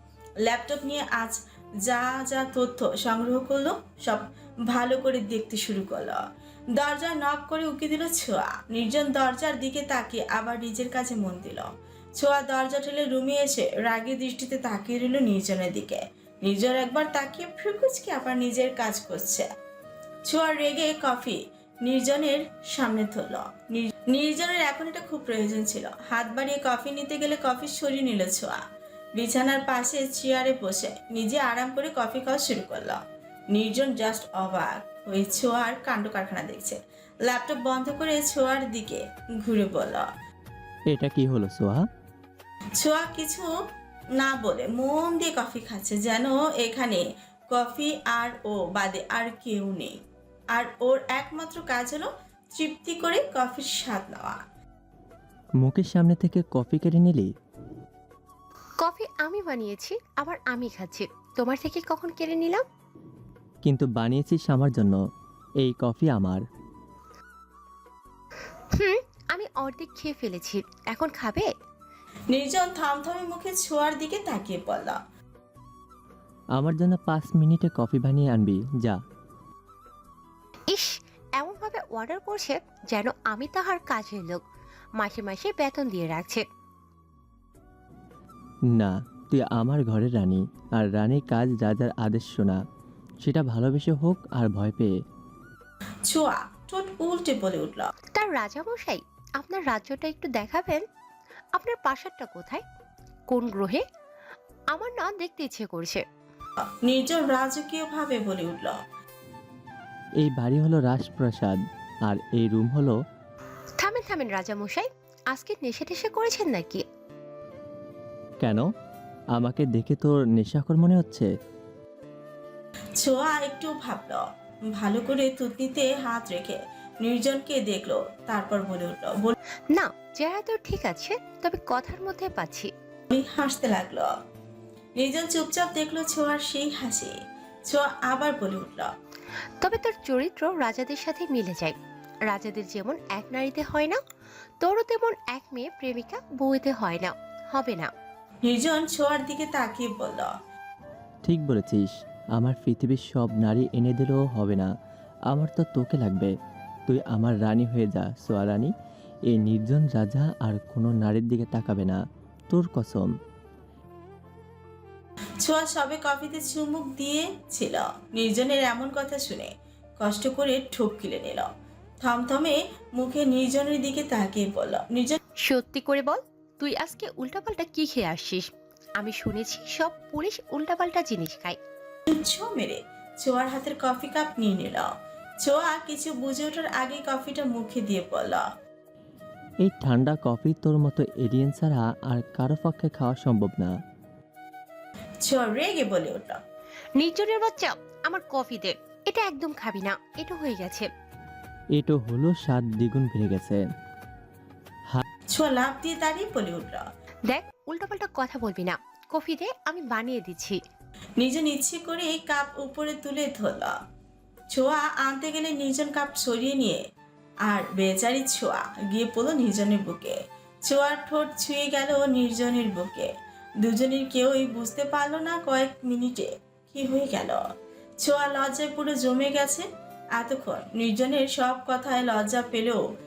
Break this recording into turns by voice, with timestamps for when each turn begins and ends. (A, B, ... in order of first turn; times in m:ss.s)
0:00.5-0:06.2 A
0:06.8-0:19.5 A
0:20.3-0:28.6 A
0:29.2-0:33.0 A
0:33.5-0:40.1 A
0:40.9-0:41.8 B
0:42.8-0:43.5 A
0:44.2-0:50.0 A
0:50.6-0:54.4 A
0:55.6-0:57.3 B
0:58.8-1:02.6 C
1:03.6-1:05.0 B
1:05.6-1:06.4 B
1:08.8-1:11.5 C
1:12.3-1:15.0 A
1:16.6-1:19.0 B
1:20.7-1:24.4 C
1:25.0-1:26.4 C
1:28.7-1:32.6 B
1:33.2-1:34.9 B
1:36.1-1:37.9 A
1:38.2-1:40.8 C
1:41.6-1:42.6 C
1:43.3-1:43.8 C
1:44.7-1:46.0 C
1:46.9-1:48.8 A
1:50.2-1:53.0 B
1:53.8-1:56.8 C
1:59.4-2:01.3 B
2:03.0-2:04.2 A
2:04.8-2:09.4 A
2:09.7-2:12.7 C
2:13.1-2:14.1 A
2:15.0-2:17.1 A
2:17.7-2:18.9 A
2:19.6-2:24.0 C
2:24.6-2:27.9 C
2:28.5-2:30.3 A
2:31.2-2:34.7 B
2:35.3-2:36.3 B
2:36.9-2:38.7 B
2:39.3-2:42.0 B
2:42.5-2:43.1 B
2:45.4-2:51.5 A
2:52.0-2:55.2 A
2:55.5-3:01.6 C
3:02.1-3:04.9 A
3:05.4-3:08.4 A
3:09.6-3:13.7 B
3:15.2-3:16.4 A
3:17.0-3:20.9 C
3:21.8-3:23.6 B
3:25.3-3:26.8 A
3:27.3-3:30.6 C
3:31.2-3:33.8 A
3:34.5-3:36.8 A
3:37.5-3:43.1 A
3:43.6-3:47.4 A
3:48.0-3:49.6 A
3:50.2-3:52.8 A